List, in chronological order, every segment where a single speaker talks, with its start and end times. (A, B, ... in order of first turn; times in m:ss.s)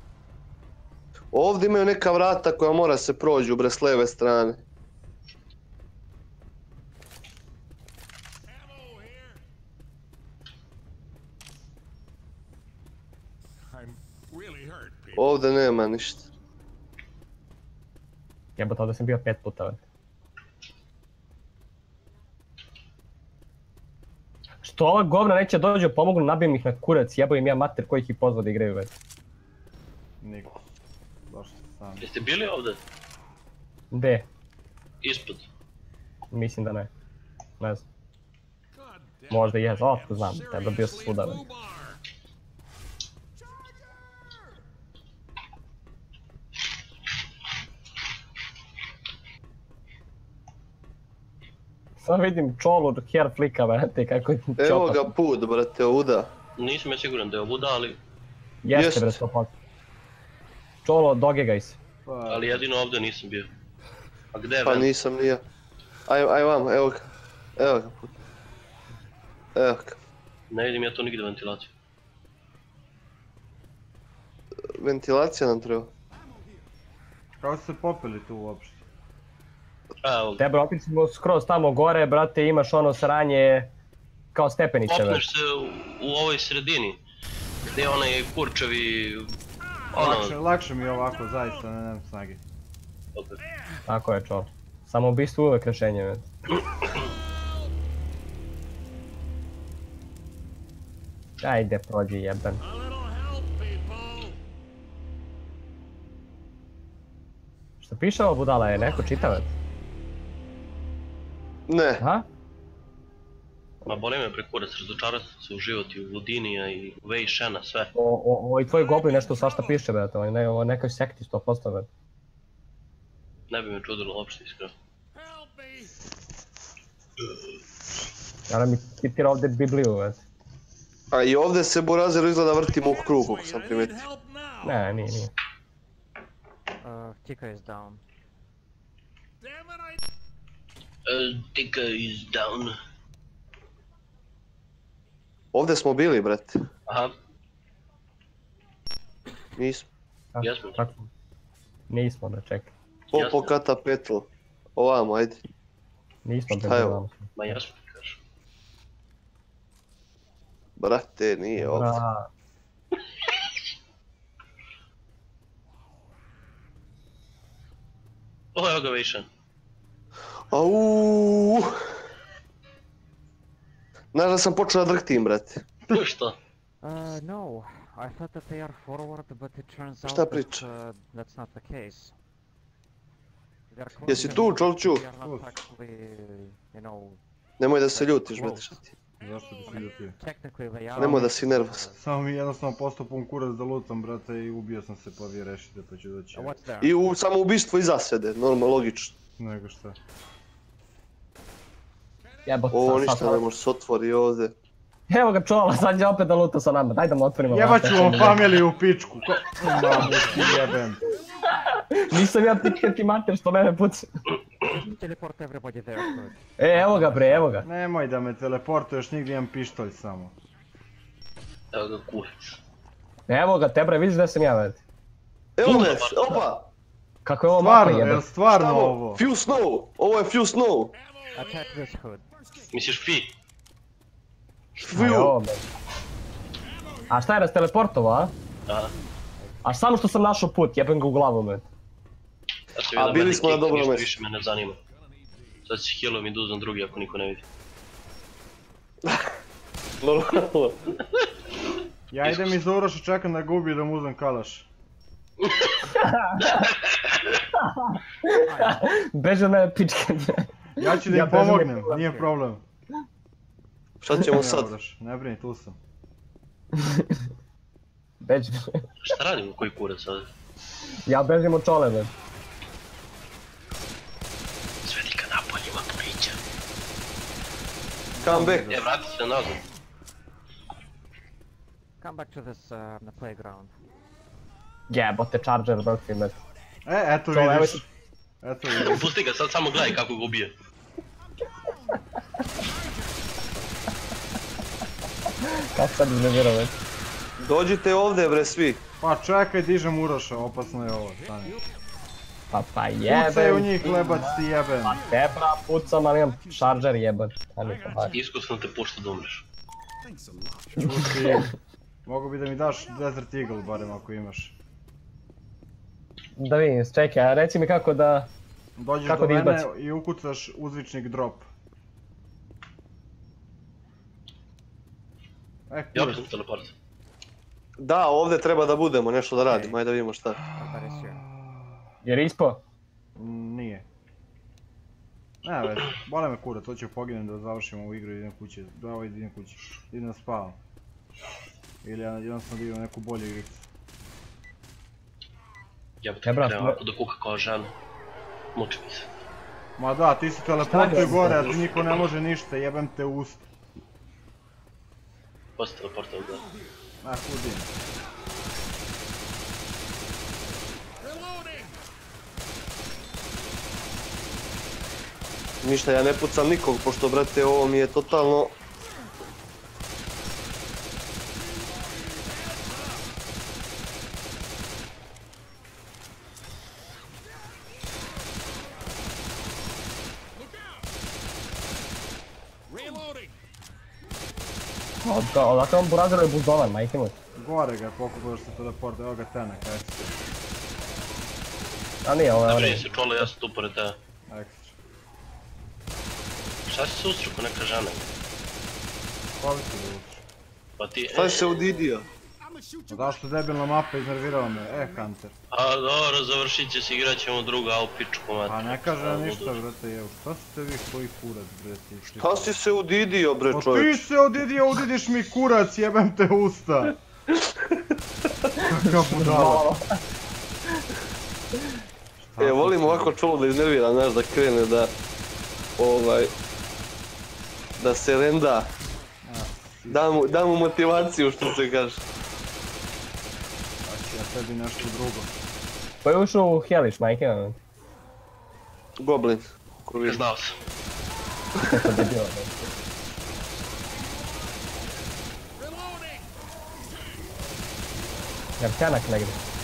0:01.3-0:04.6 A
0:08.5-0:09.4 B
0:13.7-0:15.3 B
0:15.2-0:16.3 A
0:18.6-0:19.8 C
0:24.6-0:28.9 C
0:30.2-0:30.6 D
0:31.3-0:32.1 D
0:32.0-0:32.8 E
0:33.9-0:34.3 C
0:35.0-0:35.5 E
0:36.3-0:36.9 C
0:37.6-0:37.8 C
0:38.7-0:42.0 B
0:39.3-0:41.5 C
0:43.4-0:44.3 B
0:52.0-0:55.1 C
0:54.6-0:56.3 A
0:56.6-0:58.0 E
0:58.6-0:59.5 C
0:58.7-0:59.2 A
1:00.8-1:01.8 C
1:02.0-1:02.6 D
1:02.3-1:03.5 E
1:04.3-1:04.9 E
1:04.6-1:05.4 A
1:06.1-1:07.0 A
1:07.6-1:08.1 A
1:09.6-1:10.0 A
1:10.5-1:11.7 E
1:14.8-1:15.9 A
1:17.4-1:18.8 D
1:20.0-1:20.4 E
1:20.4-1:23.7 C
1:24.3-1:25.2 C
1:24.9-1:27.0 E
1:27.7-1:29.3 E
1:29.9-1:30.4 E
1:30.0-1:32.4 D
1:33.9-1:36.3 C
1:41.4-1:42.6 C
1:42.6-1:44.4 B
1:47.8-1:49.5 C
1:51.7-1:52.0 A
1:52.0-1:52.3 C
1:53.8-1:57.9 E
1:58.0-2:01.9 C
1:58.7-1:59.8 B
2:03.5-2:04.7 E
2:05.2-2:06.0 B
2:08.5-2:10.2 C
2:11.1-2:14.0 A
2:12.7-2:14.9 B
2:14.6-2:15.3 C
2:16.8-2:18.0 F
2:19.4-2:20.0 B
2:21.1-2:22.8 E
2:25.5-2:26.6 A
2:26.9-2:27.2 E
2:29.6-2:29.9 A
2:30.4-2:31.1 C
2:30.4-2:30.8 E
2:31.9-2:32.7 C
2:33.1-2:35.4 A
2:33.1-2:33.5 E
2:36.2-2:37.6 C
2:36.6-2:37.0 A
2:37.4-2:38.2 E
2:40.8-2:42.0 A
2:41.6-2:42.3 C
2:48.6-2:49.3 E
2:50.5-2:51.7 A
2:54.1-2:55.6 A
2:55.9-2:56.4 E
2:56.8-3:02.2 F
3:00.1-3:00.7 A
3:03.7-3:07.2 F
3:04.1-3:05.0 A
3:04.1-3:04.5 D
3:05.2-3:05.6 D
3:07.6-3:08.7 A
3:07.9-3:08.9 F
3:09.2-3:10.2 D
3:09.6-3:12.0 F
3:11.0-3:11.3 D
3:11.0-3:11.8 A
3:12.0-3:16.5 D
3:16.3-3:17.0 F
3:16.8-3:19.2 A
3:19.4-3:20.0 D
3:22.5-3:23.4 C
3:22.7-3:24.5 A
3:25.1-3:28.7 C
3:27.5-3:31.0 D
3:31.6-3:34.1 C
3:34.7-3:37.6 F
3:36.6-3:37.6 C
3:37.6-3:40.4 D
3:41.7-3:42.6 E
3:43.3-3:44.8 C
3:45.6-3:46.7 A
3:45.6-3:46.4 E
3:47.2-3:48.3 C
3:47.6-3:49.2 D
3:48.5-3:50.9 A
3:51.2-3:51.8 B
3:51.4-3:52.2 F
3:52.5-3:52.8 B
3:52.7-3:53.3 E
3:54.8-3:55.4 A
3:54.9-3:55.6 C
3:56.8-3:57.2 B
3:57.1-3:58.3 C
3:58.7-3:58.9 E
3:59.6-4:01.7 C
4:02.8-4:04.8 E
4:03.0-4:04.1 A
4:04.8-4:05.7 B
4:05.7-4:07.4 E
4:10.0-4:10.8 A
4:12.1-4:14.7 D
4:12.2-4:12.6 E
4:15.9-4:16.8 C
4:17.5-4:22.0 C
4:18.3-4:18.9 F
4:20.8-4:22.6 D
4:21.9-4:22.3 F
4:24.0-4:24.7 A
4:24.2-4:25.8 D
4:26.8-4:27.2 C
4:28.2-4:28.9 C
4:29.0-4:30.3 E
4:31.1-4:32.1 C
4:34.8-4:36.4 E
4:38.2-4:38.8 D
4:38.2-4:38.8 A
4:38.7-4:39.6 E
4:42.0-4:43.7 F
4:44.9-4:46.4 C
4:46.9-4:47.8 D
4:47.3-4:47.8 C
4:48.4-4:49.1 D
4:48.8-4:50.5 E
4:52.6-4:53.4 B
4:55.6-4:56.8 C
4:57.4-4:58.8 A
4:59.0-5:01.6 D
5:00.6-5:01.7 B
5:02.5-5:08.1 C
5:03.0-5:05.0 D
5:05.0-5:07.0 B
5:07.6-5:08.2 B
5:08.1-5:09.4 E
5:10.0-5:11.3 B
5:10.8-5:11.5 D
5:12.1-5:14.5 D
5:16.4-5:18.3 C
5:18.8-5:21.5 D
5:19.0-5:19.7 C
5:25.7-5:26.3 D
5:26.0-5:26.7 E
5:27.8-5:30.4 A
5:29.4-5:29.8 F
5:30.4-5:31.7 D
5:30.5-5:31.2 F
5:32.0-5:32.6 C
5:33.2-5:33.8 D
5:35.4-5:40.6 D
5:41.8-5:43.7 D
5:46.0-5:47.7 E
5:46.2-5:46.8 C
5:48.6-5:49.1 E
5:49.8-5:53.4 D
5:50.7-5:51.6 C
5:55.6-5:56.5 E
5:57.0-5:57.7 D
6:01.0-6:01.8 B
6:05.6-6:08.6 A
6:11.6-6:13.0 B
6:20.3-6:20.9 B
6:22.7-6:23.4 B
6:25.0-6:27.2 C
6:27.4-6:30.2 D
6:32.0-6:33.3 C
6:32.4-6:34.0 E
6:34.3-6:34.8 D
6:36.7-6:38.1 E
6:39.4-6:40.2 D
6:40.8-6:41.6 E
6:41.1-6:42.1 A
6:42.4-6:45.1 B
6:42.9-6:45.3 D
6:45.5-6:49.6 E
6:48.5-6:52.6 D
6:52.2-6:54.0 A
6:53.5-6:57.0 D
6:58.6-6:59.7 D
6:58.7-7:00.0 C
7:02.2-7:03.1 D
7:02.4-7:04.9 A
7:05.8-7:06.3 A
7:07.8-7:08.7 A
7:09.2-7:10.2 D
7:09.9-7:12.0 A
7:13.8-7:15.3 D
7:16.0-7:17.6 C
7:19.0-7:20.2 A
7:20.0-7:20.6 E
7:21.6-7:22.0 A
7:21.7-7:22.5 C
7:25.6-7:26.3 B
7:28.6-7:29.4 C